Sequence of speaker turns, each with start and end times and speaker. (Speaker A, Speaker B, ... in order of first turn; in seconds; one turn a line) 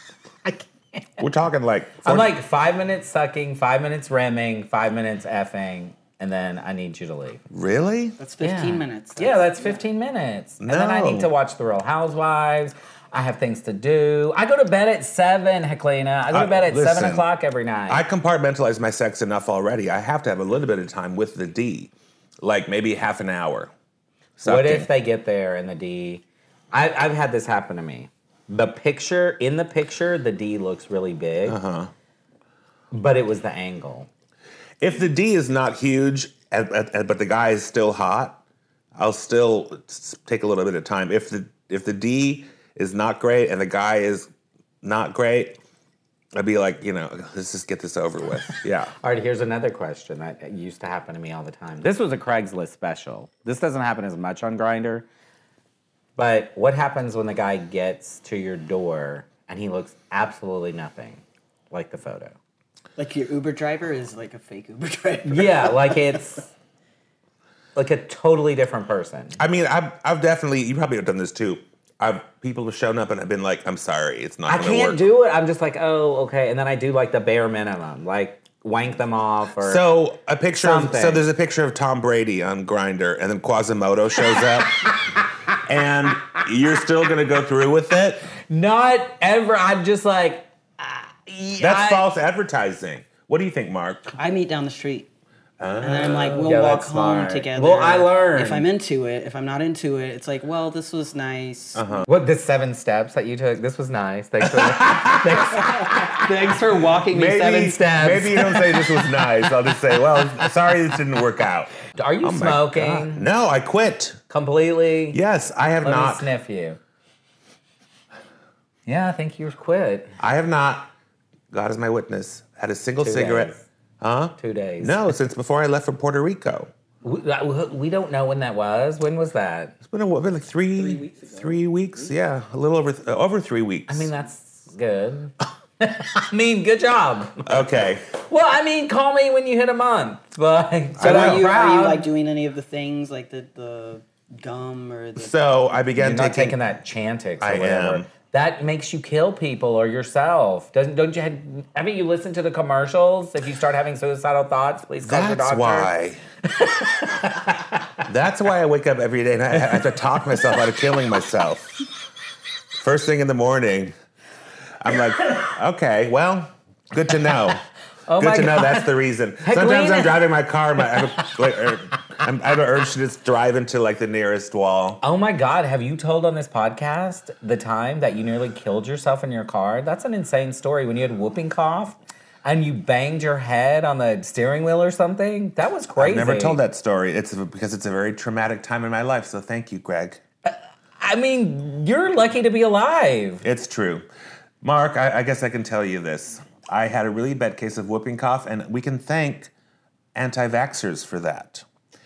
Speaker A: 0.4-1.2
Speaker B: 1.2-2.3
Speaker A: 2.0-7.4
Speaker B: 7.5-8.2
Speaker C: 8.2-9.8
Speaker A: 8.4-18.0
Speaker B: 10.6-11.3
Speaker B: 16.3-17.3
Speaker B: 17.9-21.9
Speaker B: 22.4-23.7
Speaker B: 24.4-24.9
Speaker A: 24.4-31.6
Speaker B: 31.5-31.9
Speaker A: 32.9-34.1
Speaker B: 34.8-38.4
Speaker B: 39.0-44.3
Speaker B: 44.8-45.6
Speaker B: 46.3-48.9
Speaker A: 49.0-55.1
Speaker A: 56.2-62.4
Speaker C: 63.0-66.2
Speaker A: 65.2-66.5
Speaker A: 67.8-69.4
Speaker B: 69.4-75.0
Speaker A: 74.5-79.8
Speaker B: 79.6-85.0
Speaker A: 80.6-81.2
Speaker B: 85.6-88.3
Speaker A: 88.5-92.0
Speaker B: 91.6-94.1
Speaker C: 94.2-95.1
Speaker B: 95.6-96.4
Speaker C: 95.8-102.1
Speaker A: 96.3-98.7
Speaker B: 101.8-102.1
Speaker A: 102.1-108.9
Speaker B: 104.4-106.2
Speaker B: 107.1-114.2
Speaker A: 112.0-113.3
Speaker A: 114.3-115.2
Speaker B: 115.1-116.3
Speaker A: 115.8-116.8
Speaker A: 118.9-120.1
Speaker B: 120.2-120.9
Speaker B: 121.5-126.7
Speaker A: 123.0-123.6
Speaker A: 124.4-125.0
Speaker A: 127.0-129.8
Speaker B: 129.9-134.1
Speaker C: 130.8-131.6
Speaker A: 133.9-137.6
Speaker B: 137.4-138.0
Speaker A: 138.1-142.1
Speaker B: 141.0-141.4
Speaker C: 141.0-145.3
Speaker B: 145.2-146.6
Speaker A: 146.0-155.9
Speaker B: 147.4-148.1
Speaker B: 155.0-156.2
Speaker A: 156.6-158.0
Speaker B: 158.1-161.8
Speaker B: 162.8-163.9
Speaker B: 164.8-167.6
Speaker A: 168.1-170.2
Speaker B: 168.2-175.0
Speaker A: 175.0-186.6
Speaker B: 186.0-190.2
Speaker A: 190.5-193.4
Speaker B: 193.4-194.1
Speaker B: 194.6-199.5
Speaker B: 200.2-201.7